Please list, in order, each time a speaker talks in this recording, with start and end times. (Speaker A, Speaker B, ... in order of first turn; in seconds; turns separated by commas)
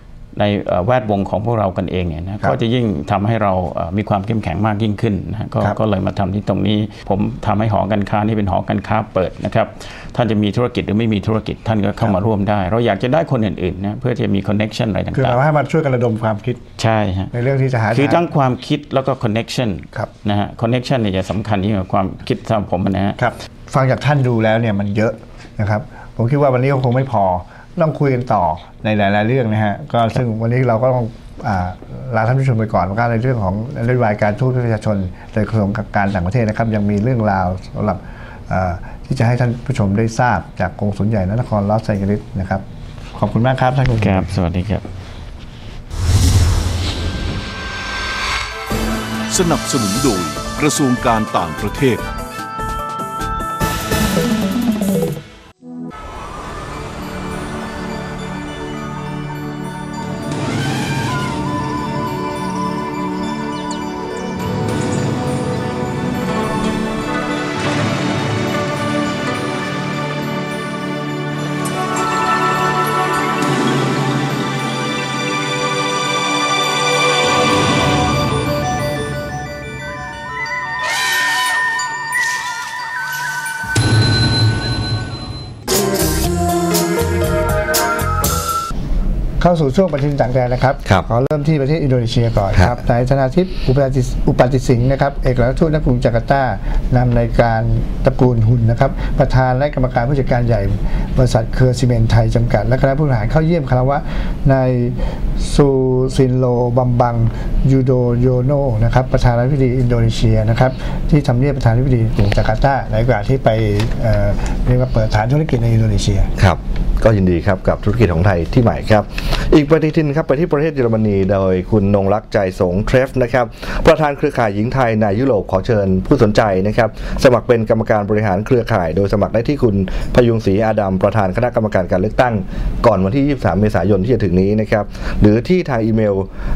Speaker A: 0.3-15.4, Speaker B: 15.1-16.6, Speaker A: 16.8-17.3, Speaker B: 17.3-18.2, Speaker A: 17.9-23.2, Speaker B: 23.2-42.6, Speaker B: 43.1-44.3, Speaker A: 44.0-44.8, Speaker C: 49.3-52.0, Speaker B: 89.4-116.3, Speaker D: 116.4-136.3